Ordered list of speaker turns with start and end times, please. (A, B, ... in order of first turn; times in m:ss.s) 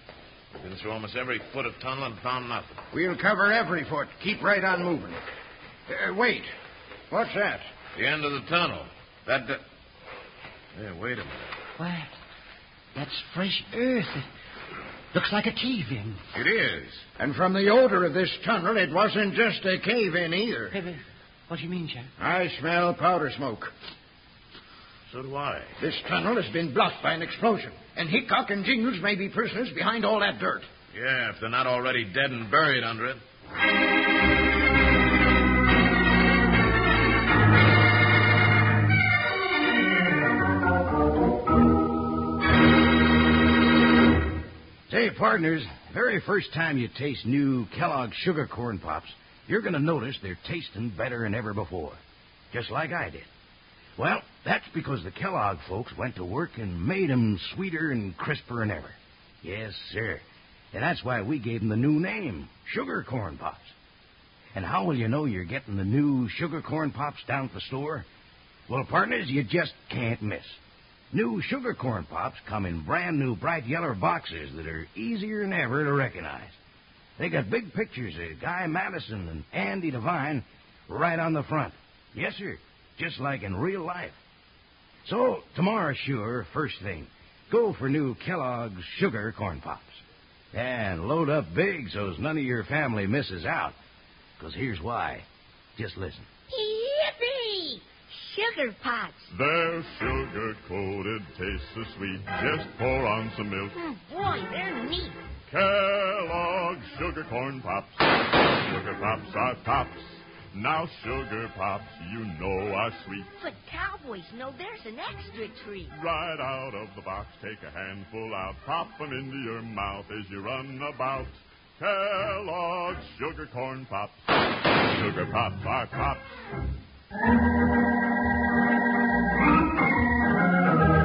0:00.6-0:02.8 A
0:02.9-0:05.2 B
0:05.9-0:06.5 B
0:07.1-0:07.6 B
0:08.0-0:09.6 A
0:10.8-0:11.5 A
0:11.8-0:12.1 C
0:13.0-0:14.2 C
0:15.1-0:16.2 C
0:16.3-0:17.0 A
0:17.2-0:20.8 B
0:20.7-0:22.1 C
0:22.2-0:23.7 B
0:25.1-0:25.8 A
0:25.8-0:30.7 B
0:30.9-0:33.2 A
0:44.9-0:52.0 D
0:52.5-0:53.3 D
0:54.0-1:03.7 D
1:04.5-1:08.0 D
1:08.7-1:10.6 D
1:11.1-1:16.6 D
1:17.2-1:24.2 D
1:25.0-1:30.0 D
1:30.5-1:33.8 D
1:34.4-1:36.3 D
1:36.5-1:39.3 E
1:39.3-1:43.8 F
1:43.8-1:45.2 E
1:45.5-1:48.0 F
1:48.6-1:53.3 F
1:53.4-1:55.9 E
1:55.9-2:04.2 F
2:04.8-2:06.4 F